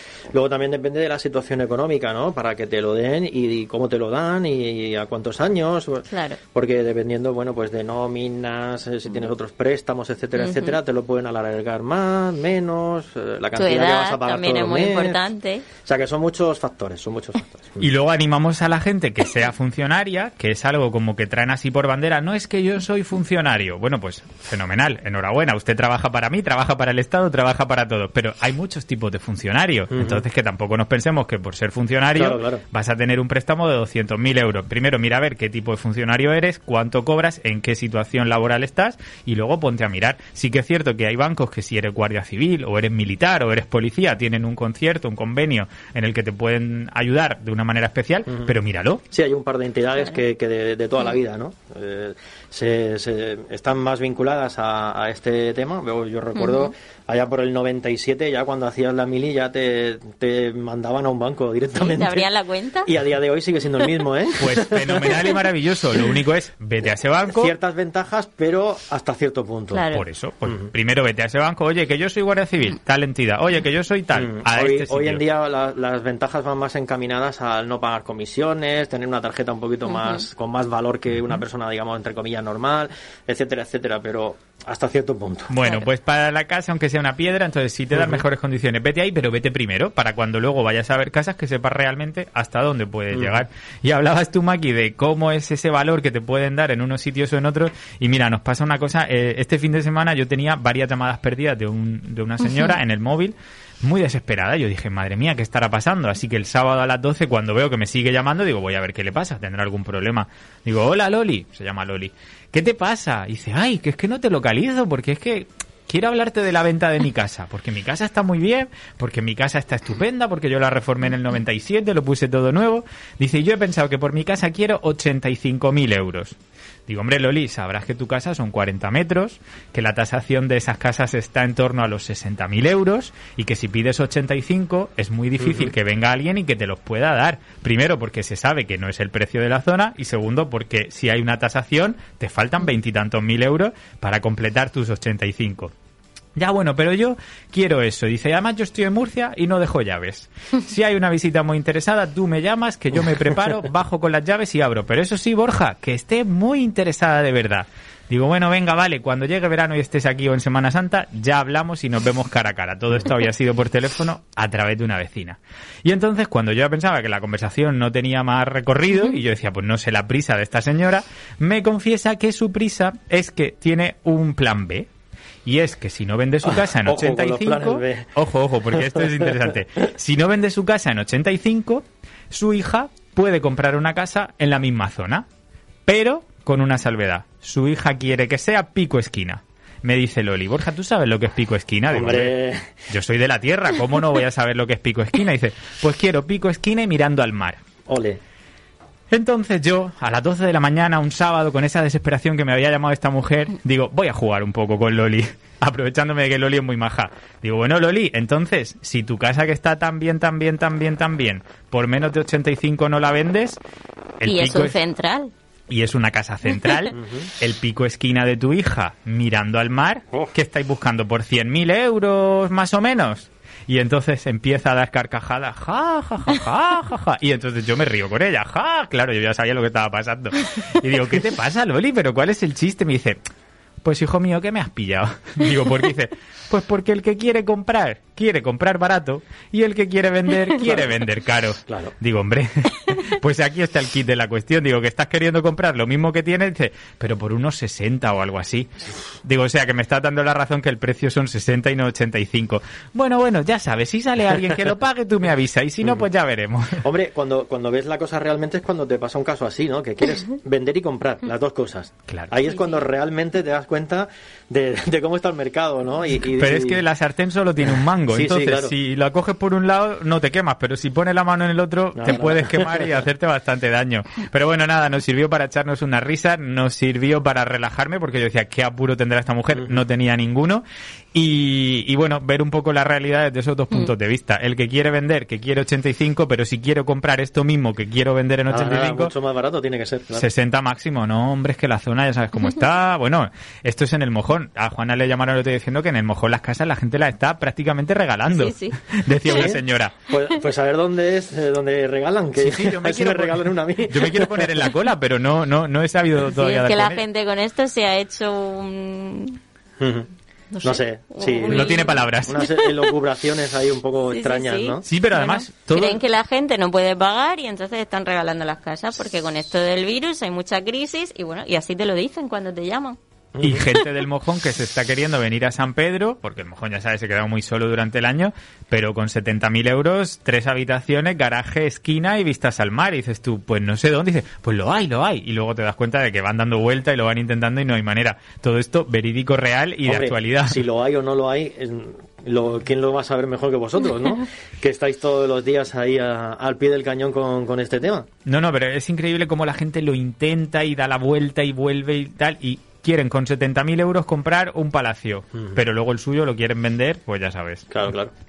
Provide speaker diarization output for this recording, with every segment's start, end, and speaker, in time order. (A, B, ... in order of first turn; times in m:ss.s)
0:00.3-0:15.2 A
0:06.1-0:06.4 B
0:10.4-0:10.7 B
0:13.6-0:15.6 B
0:15.8-0:17.8 A
0:17.8-0:49.0 C
0:29.9-0:30.2 A
0:32.1-0:32.6 A
0:49.1-1:02.3 A
0:56.4-0:56.7 B
1:01.8-1:02.9 B
1:02.8-1:05.2 A
1:04.4-1:07.5 C
1:07.3-1:09.8 A
1:09.7-1:10.0 B
1:09.9-1:15.2 C
1:14.1-1:25.5 A
1:25.5-2:25.7 C
1:27.9-1:28.2 A
1:33.1-1:33.4 A
2:26.4-2:54.9 C
2:55.4-3:05.2 C
2:56.4-2:58.1 A
2:58.7-2:59.5 A
3:05.8-3:12.3 C
3:11.9-3:12.9 A
3:12.9-3:17.6 C
3:17.9-3:18.2 A
3:19.1-3:33.6 C
3:34.2-3:34.8 C
3:34.2-3:35.3 B
3:35.7-3:53.2 C
3:36.9-3:37.3 A
3:53.8-4:16.8 C
4:01.7-4:01.9 A
4:16.8-4:26.8 A
4:26.2-4:49.1 C
4:28.1-4:28.7 A
4:31.9-4:32.9 A
4:48.5-4:50.2 A
4:50.1-4:59.9 C
4:58.3-4:58.8 B
4:59.3-5:04.5 A
5:02.4-5:07.0 C
5:06.3-5:09.4 B
5:09.8-5:10.1 A
5:10.5-5:12.8 B
5:10.6-5:14.8 A
5:11.5-5:12.5 C
5:14.1-5:23.0 B
5:14.8-5:16.0 C
5:23.3-5:23.6 A
5:23.4-5:40.6 C
5:39.8-5:48.1 A
5:48.2-5:57.9 C
5:57.7-5:58.1 A